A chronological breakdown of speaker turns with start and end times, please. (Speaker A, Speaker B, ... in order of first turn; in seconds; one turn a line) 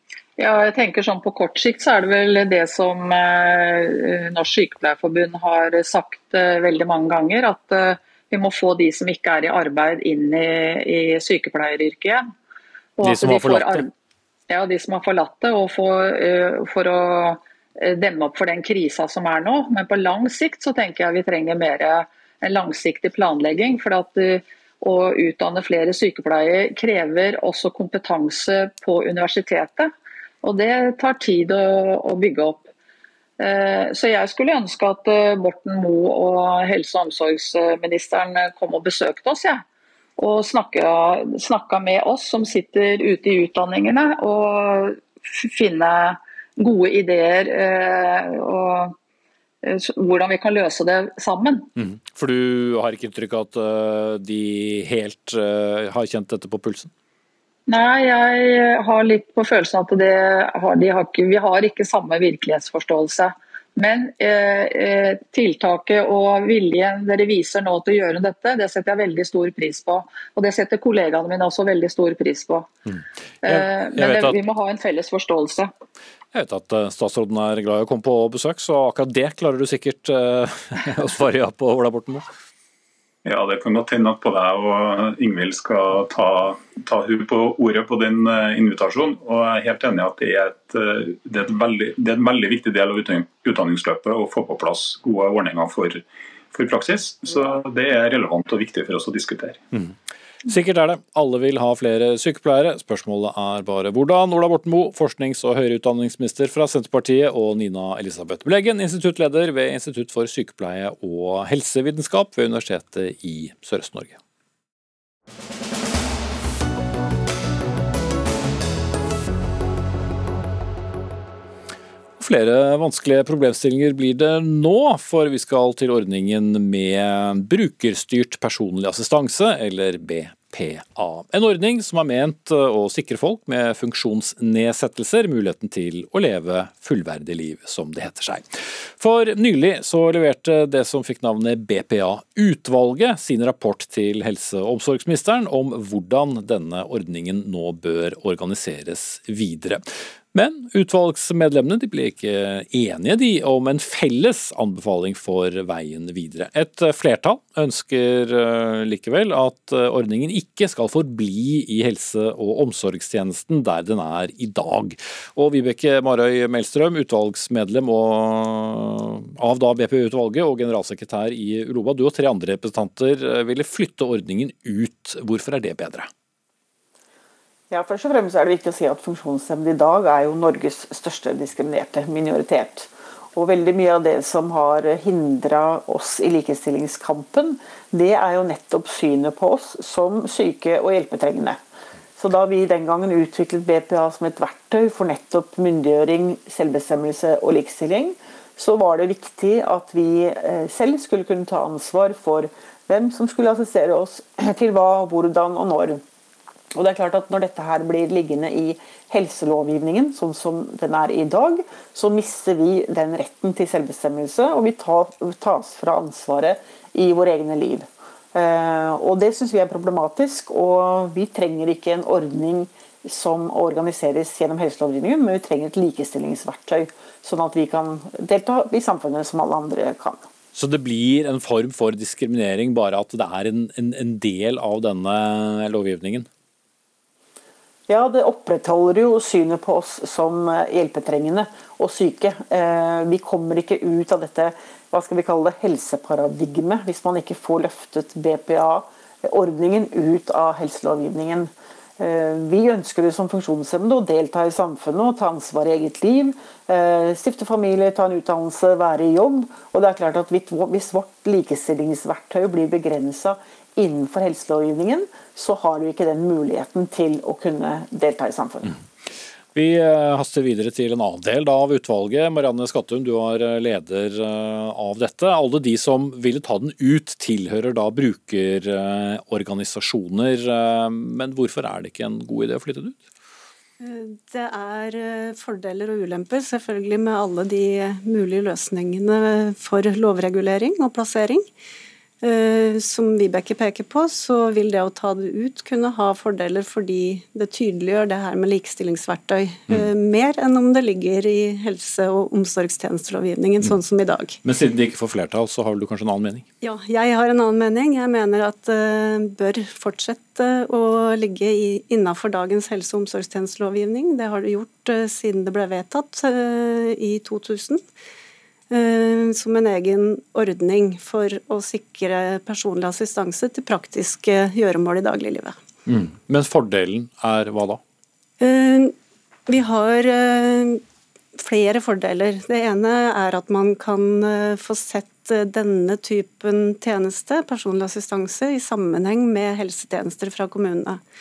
Speaker A: 0.4-12.3
Speaker A: 13.0-13.9
Speaker B: 13.0-13.9
Speaker A: 14.5-29.9
Speaker A: 30.4-32.7
Speaker A: 33.4-39.6
Speaker A: 40.2-49.0
Speaker A: 49.6-51.7
Speaker B: 51.8-56.9
Speaker A: 57.7-72.7
Speaker A: 73.4-75.7
Speaker B: 73.5-74.4
Speaker B: 76.3-82.3
Speaker C: 83.2-99.6
Speaker B: 100.5-114.2
Speaker B: 122.2-176.1
Speaker D: 177.7-191.6
Speaker D: 192.2-206.0
Speaker D: 206.8-230.3
Speaker B: 230.6-236.3
Speaker D: 237.9-268.8
Speaker B: 269.6-283.0
Speaker E: 283.8-291.5
Speaker E: 292.2-304.4
Speaker B: 304.4-306.4
Speaker E: 306.6-317.8
Speaker E: 318.7-325.6
Speaker B: 325.9-327.8
Speaker E: 328.4-328.9
Speaker E: 329.5-330.8
Speaker E: 331.4-341.0